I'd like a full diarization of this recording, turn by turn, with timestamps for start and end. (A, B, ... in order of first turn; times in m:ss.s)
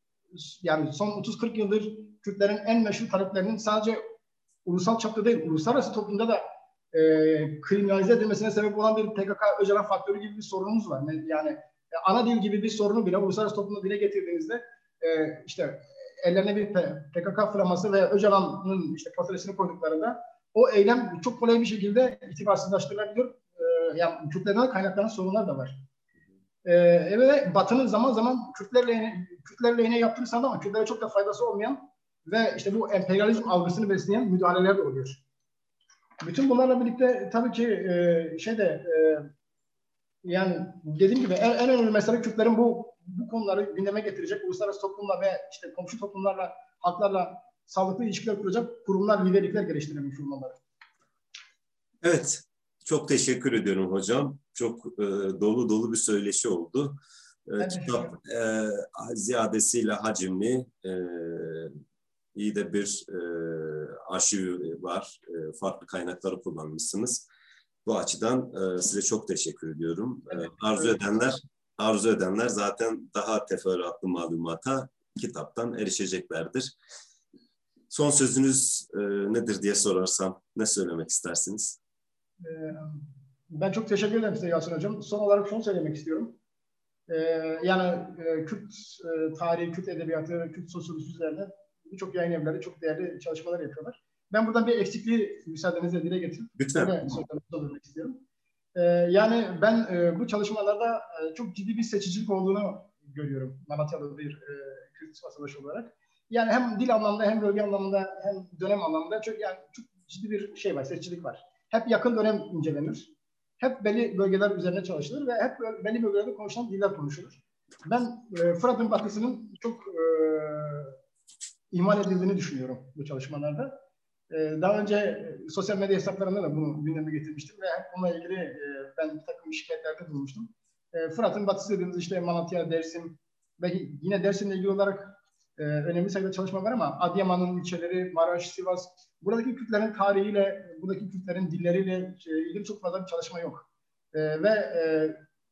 0:00.3-0:04.0 A
0:04.6-0:25.7 A
0:26.6-0:35.2 A
0:36.2-0:39.3 A
0:40.2-0:50.6 A
0:52.0-1:01.8 B
0:57.6-0:58.2 A
1:02.3-1:07.3 B
1:07.8-1:16.7 B
1:17.9-1:21.8 B
1:22.4-1:26.4 A
1:27.1-1:38.2 A
1:36.6-1:37.2 B
1:38.8-2:00.9 A
2:01.7-2:03.7 A
2:04.3-2:25.2 A